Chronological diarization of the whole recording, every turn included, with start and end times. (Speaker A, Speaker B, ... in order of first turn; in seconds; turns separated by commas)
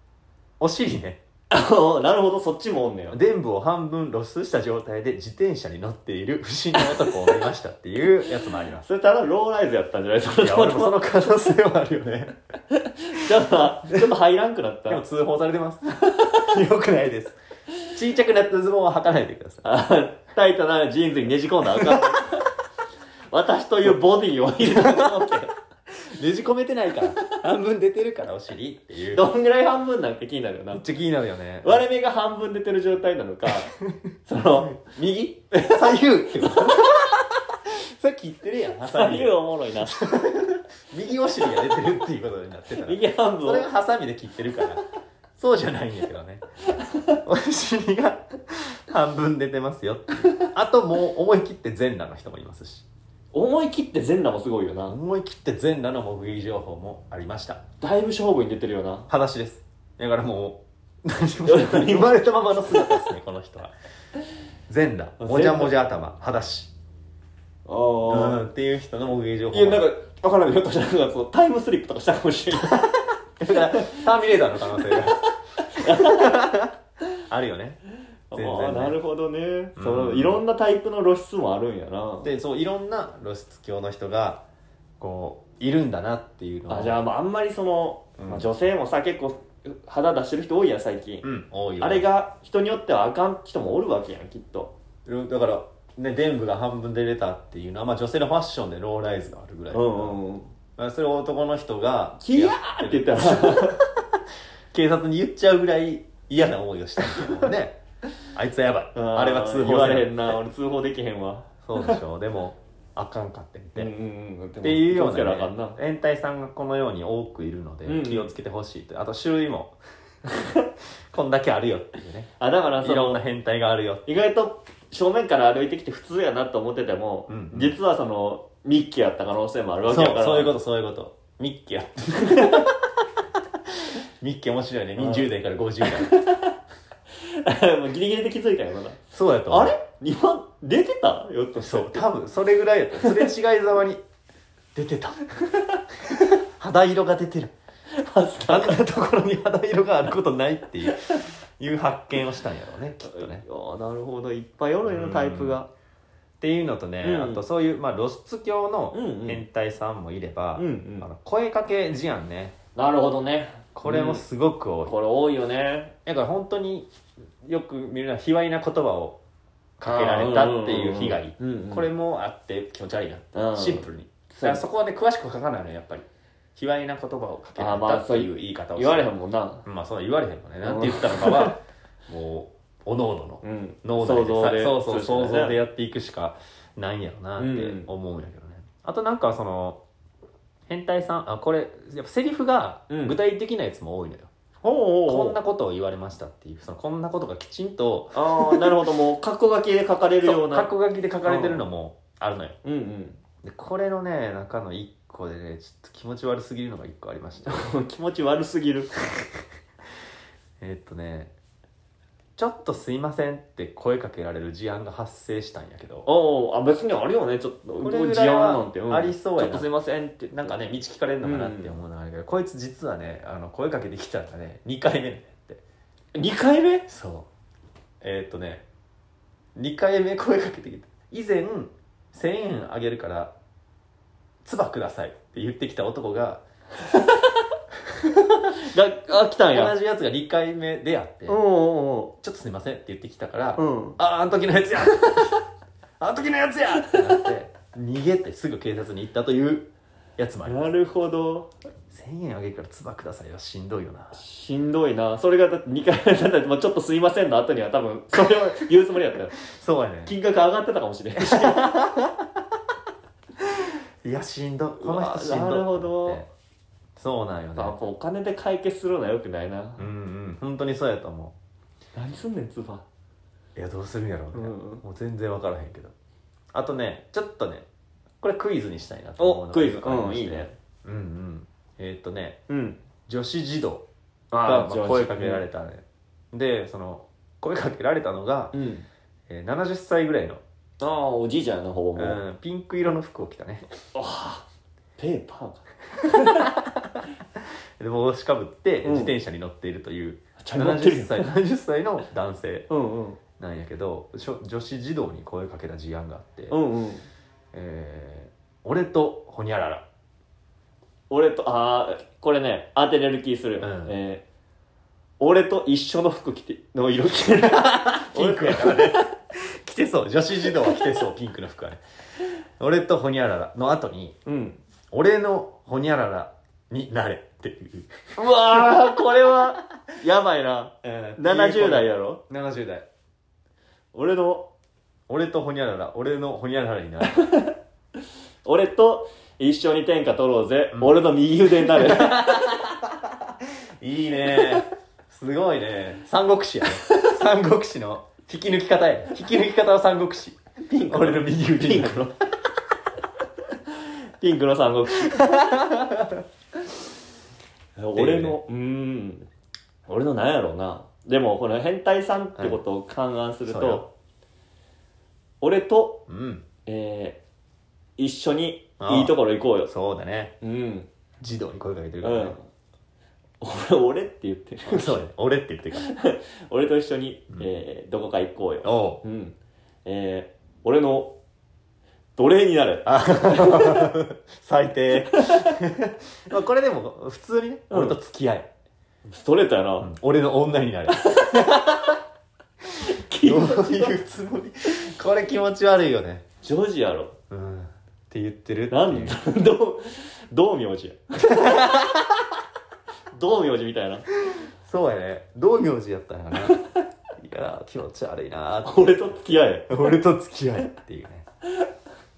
Speaker A: 0.6-1.2, Speaker B: 1.5-3.2, Speaker A: 3.1-8.8, Speaker B: 8.8-11.1, Speaker A: 10.4-12.3, Speaker B: 12.7-15.0, Speaker A: 14.9-19.6, Speaker B: 16.2-16.5, Speaker B: 19.6-22.5, Speaker A: 21.8-22.2, Speaker B: 23.3-25.5, Speaker A: 24.7-25.1, Speaker A: 25.9-29.3, Speaker B: 29.1-30.9, Speaker A: 30.7-31.8, Speaker B: 31.6-33.7, Speaker B: 34.2-34.8, Speaker A: 34.6-44.8, Speaker B: 35.5-36.8, Speaker B: 38.8-40.1, Speaker B: 42.8-43.7, Speaker A: 45.4-46.4, Speaker A: 47.1-52.9, Speaker B: 53.3-55.0, Speaker A: 54.9-57.6, Speaker B: 57.8-59.1, Speaker A: 59.1-63.7, Speaker B: 61.5-63.0, Speaker A: 64.7-66.7, Speaker B: 65.2-65.8, Speaker B: 67.7-68.4, Speaker A: 68.1-69.9, Speaker B: 69.5-72.9, Speaker A: 72.7-76.7, Speaker B: 73.5-74.0, Speaker B: 74.7-76.5, Speaker A: 77.3-77.8, Speaker B: 78.3-82.3, Speaker A: 78.3-79.0, Speaker A: 79.8-80.4, Speaker A: 82.2-84.4, Speaker A: 85.0-87.0, Speaker B: 86.7-91.3, Speaker A: 88.2-88.5, Speaker A: 91.2-92.0, Speaker B: 91.8-94.7, Speaker A: 95.0-100.2, Speaker B: 99.7-100.5, Speaker A: 100.8-104.1, Speaker B: 102.2-103.8, Speaker A: 104.7-107.8, Speaker A: 108.3-110.3, Speaker B: 108.9-112.0, Speaker A: 111.6-113.9, Speaker B: 113.8-115.8, Speaker A: 114.6-119.8, Speaker B: 117.8-118.3, Speaker B: 120.3-120.7, Speaker A: 121.1-124.0, Speaker B: 122.4-123.2, Speaker B: 124.0-130.5, Speaker A: 127.3-127.8, Speaker A: 129.9-132.9, Speaker B: 132.2-132.7, Speaker A: 133.7-136.2, Speaker B: 135.0-135.3, Speaker B: 135.8-136.5, Speaker B: 137.2-142.1, Speaker A: 139.1-139.7, Speaker A: 141.6-144.0, Speaker A: 144.7-145.3, Speaker A: 146.1-147.5, Speaker B: 147.9-148.8, Speaker A: 148.5-153.4, Speaker B: 153.0-155.7, Speaker A: 154.8-155.6, Speaker A: 156.4-162.5, Speaker B: 157.0-157.4, Speaker B: 158.9-159.4, Speaker B: 160.6-161.1, Speaker B: 162.7-164.2, Speaker A: 163.8-164.9, Speaker B: 164.8-165.9, Speaker A: 166.0-166.9, Speaker A: 167.4-169.2, Speaker A: 169.8-179.1, Speaker B: 169.8-171.9, Speaker B: 173.3-174.6, Speaker B: 177.6-179.7, Speaker A: 179.7-189.8, Speaker B: 180.6-181.5, Speaker B: 183.4-185.6, Speaker B: 187.4-187.9, Speaker A: 190.7-194.3, Speaker B: 192.9-193.2, Speaker B: 194.6-195.4, Speaker A: 195.1-198.8, Speaker B: 198.1-200.7, Speaker A: 200.2-202.6, Speaker B: 201.2-201.6, Speaker B: 202.6-203.2, Speaker A: 203.4-207.7, Speaker B: 207.4-208.9, Speaker A: 210.6-211.3, Speaker A: 212.4-216.1, Speaker B: 216.1-220.6, Speaker A: 217.8-219.7, Speaker A: 220.3-225.6, Speaker B: 221.2-221.7, Speaker B: 226.1-226.9, Speaker A: 226.9-227.3, Speaker A: 228.0-228.6, Speaker A: 229.6-233.3, Speaker A: 234.4-236.4, Speaker A: 237.9-238.6, Speaker B: 238.5-239.8, Speaker A: 239.5-241.4, Speaker B: 241.3-242.1, Speaker A: 242.2-245.4, Speaker B: 243.6-244.0, Speaker A: 246.0-250.7, Speaker B: 250.4-251.5, Speaker A: 251.9-254.2, Speaker B: 254.1-259.4, Speaker A: 259.4-260.1, Speaker B: 260.1-261.8, Speaker A: 261.1-262.3, Speaker A: 263.4-266.3, Speaker B: 264.8-266.2, Speaker A: 266.9-267.8, Speaker B: 267.6-269.9, Speaker A: 269.8-271.4, Speaker B: 271.9-272.8, Speaker A: 273.6-275.9, Speaker B: 274.3-274.8, Speaker A: 276.5-277.7, Speaker A: 278.2-282.4, Speaker B: 279.2-280.5, Speaker B: 282.5-282.8, Speaker A: 283.1-283.9, Speaker B: 284.3-285.4, Speaker A: 284.4-288.5, Speaker B: 288.5-288.9, Speaker A: 289.3-290.4, Speaker B: 290.8-292.2, Speaker A: 291.9-293.6, Speaker B: 293.9-294.4, Speaker B: 295.0-296.5, Speaker A: 296.2-296.7, Speaker A: 297.8-302.7, Speaker B: 298.8-299.1, Speaker B: 300.4-301.3, Speaker B: 302.7-303.2, Speaker A: 303.4-306.6, Speaker B: 306.5-307.1, Speaker A: 307.5-309.8, Speaker B: 311.1-314.2, Speaker A: 313.6-313.9, Speaker B: 315.2-319.1, Speaker A: 317.5-321.8, Speaker A: 322.6-324.2, Speaker B: 324.2-324.6, Speaker A: 324.9-328.0, Speaker B: 328.1-332.2, Speaker A: 330.8-332.9, Speaker B: 333.9-334.5, Speaker A: 335.1-337.2, Speaker B: 337.1-337.5, Speaker B: 338.4-342.2, Speaker A: 340.7-341.0, Speaker A: 341.6-352.1, Speaker B: 350.6-352.1, Speaker B: 353.7-355.5, Speaker A: 355.1-356.2, Speaker B: 357.8-359.3, Speaker A: 357.9-358.4, Speaker B: 359.9-363.9, Speaker A: 363.5-363.8, Speaker B: 365.4-366.0, Speaker A: 366.1-366.4, Speaker B: 366.6-367.2, Speaker B: 368.0-369.7, Speaker A: 368.8-370.3, Speaker B: 370.4-370.9, Speaker A: 371.2-372.4, Speaker B: 372.0-372.4, Speaker B: 373.4-375.0, Speaker A: 374.6-375.9, Speaker B: 375.7-381.1, Speaker A: 378.6-379.0, Speaker B: 382.2-383.9, Speaker A: 382.9-388.5, Speaker B: 385.0-385.5, Speaker B: 387.7-388.0, Speaker B: 389.1-389.9, Speaker A: 389.8-392.0, Speaker B: 391.0-391.5, Speaker B: 392.8-394.0, Speaker A: 393.2-396.2, Speaker B: 396.4-397.1, Speaker A: 397.3-399.2, Speaker B: 398.7-401.8, Speaker A: 401.3-402.2, Speaker B: 403.1-404.1, Speaker A: 404.2-406.6, Speaker A: 407.1-409.1, Speaker B: 408.6-409.9, Speaker A: 409.7-411.2